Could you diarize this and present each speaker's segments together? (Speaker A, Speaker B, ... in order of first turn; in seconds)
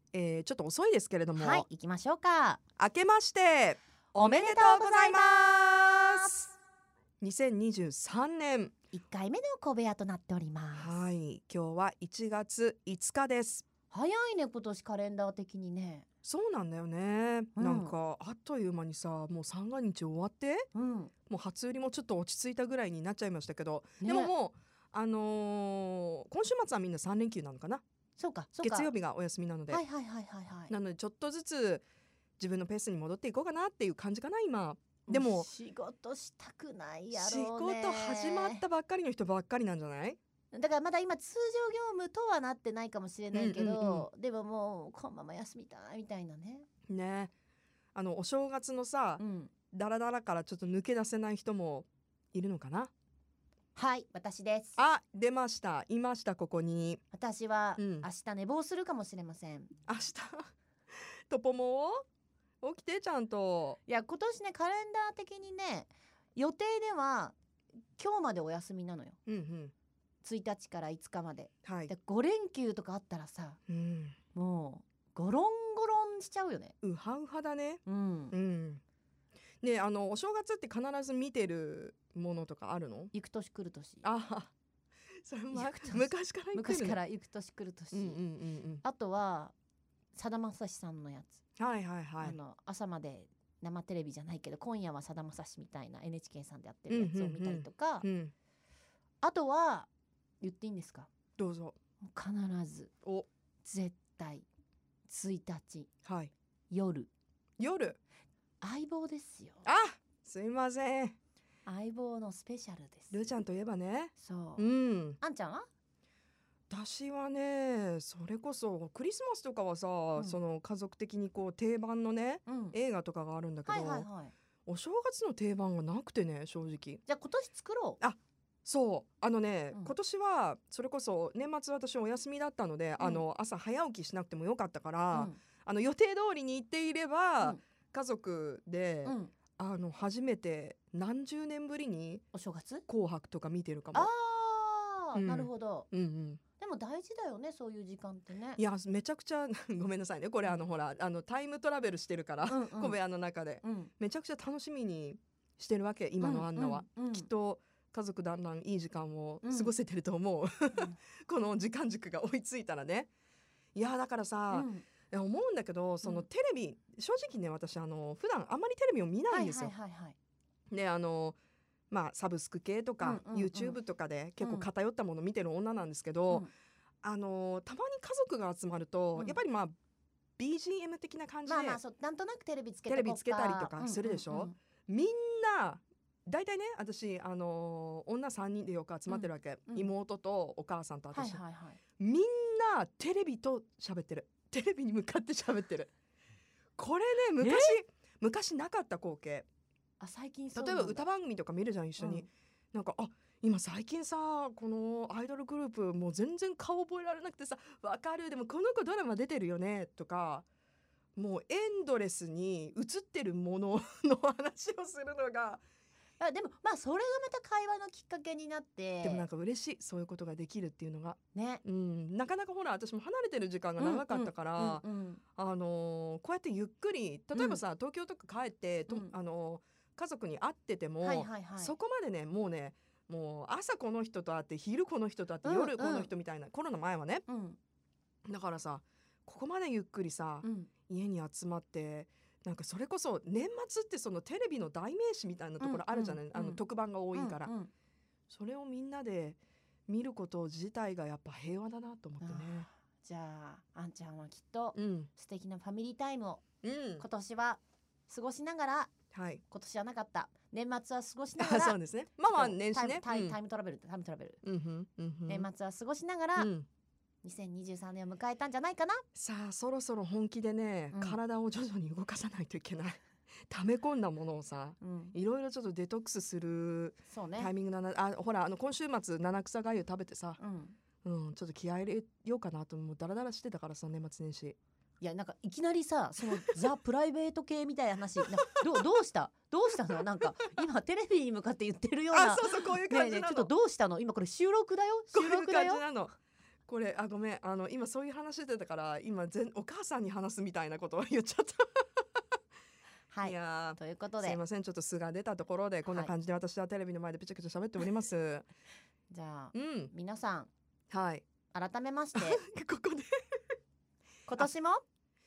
Speaker A: 0.1-1.6, 2.8-6.4, 7.2-8.7, 10.8-13.7, 16.2-20.7, 21.3-27.8, 28.6-29.8, 30.7-31.8, 32.4-35.5, 37.1-40.2, 43.3-44.1, 46.9-47.3, 48.0-52.9, 54.8-57.0, 57.8-58.1, 59.9-60.5, 61.3-62.0, 62.6-63.8, 69.3-69.7, 71.7-71.9, 73.7-74.2, 76.8-78.8, 79.6-83.1, 84.0-84.5, 85.2-87.0, 87.9-88.8, 91.6-92.4, 96.9-98.3, 101.4-101.8, 106.0-106.3, 107.6-108.0, 109.6-111.2, 113.1-115.2, 116.7-124.1, 124.7-127.0, 128.0-142.2, 142.9-144.1, 145.2-146.4, 148.6-163.1, 163.8-169.7, 170.7-171.4, 171.9-176.5, 177.0-179.7, 180.4-181.8, 182.9-191.4, 192.0-195.9, 196.8-199.5, 200.6-210.5, 211.2-215.6, 219.0-224.8, 225.4-237.3, 238.3-247.5, 248.3-252.7, 254.8-255.1, 256.6-257.1, 259.1-259.4, 261.4-263.4, 264.4-265.5, 266.4-266.7, 269.1-280.4, 281.0-284.6, 292.1-293.5, 295.1-296.1, 296.7-302.0, 303.2-308.5, 309.5-309.9, 310.9-311.2, 312.1-313.1
Speaker B: 1.4-2.6, 4.1-6.4, 8.9-11.0, 13.9-16.1, 17.6-17.9, 20.7-21.1, 24.0-24.3, 28.2-28.9, 29.7-30.7, 35.1-38.6, 40.5-46.7, 49.2-49.5, 53.8-54.8, 57.1-59.7, 63.9-67.3, 68.0-69.2, 70.2-73.6, 74.3-76.8, 77.9-78.3, 83.1-84.0, 85.5-88.2, 88.8-89.5, 90.1-91.4, 92.2-98.1, 99.2-99.9, 100.4-101.1, 102.0-102.9, 103.6-104.5, 105.1-105.9, 106.7-107.1, 108.6-109.7, 111.7-113.3, 114.2-115.7, 122.5-122.8, 123.7-124.3, 127.1-128.0, 133.0-133.2, 135.1-135.4, 139.1-139.3, 142.3-142.9, 143.9-145.9, 146.6-148.6, 152.5-153.0, 153.6-153.9, 156.2-157.3, 159.4-159.7, 164.5-164.9, 169.3-170.2, 173.0-173.8, 174.4-174.7, 181.5-184.6, 189.1-189.9, 191.1-191.8, 197.4-197.8, 200.0-201.1, 202.0-202.3, 216.2-219.3, 221.3-221.6, 223.8-225.2, 227.3-227.6, 231.0-231.7, 235.4-236.1, 237.3-237.6, 240.4-240.7, 245.6-246.6, 247.1-247.7, 252.2-256.4, 257.0-258.9, 259.5-261.8, 262.3-264.4, 265.3-266.5, 267.2-269.0, 270.9-271.2, 274.8-275.2, 277.1-277.5, 280.4-280.8, 285.0-295.8, 303.1-304.4, 305.9-306.1, 309.1-310.5, 311.5-312.4, 314.3-314.8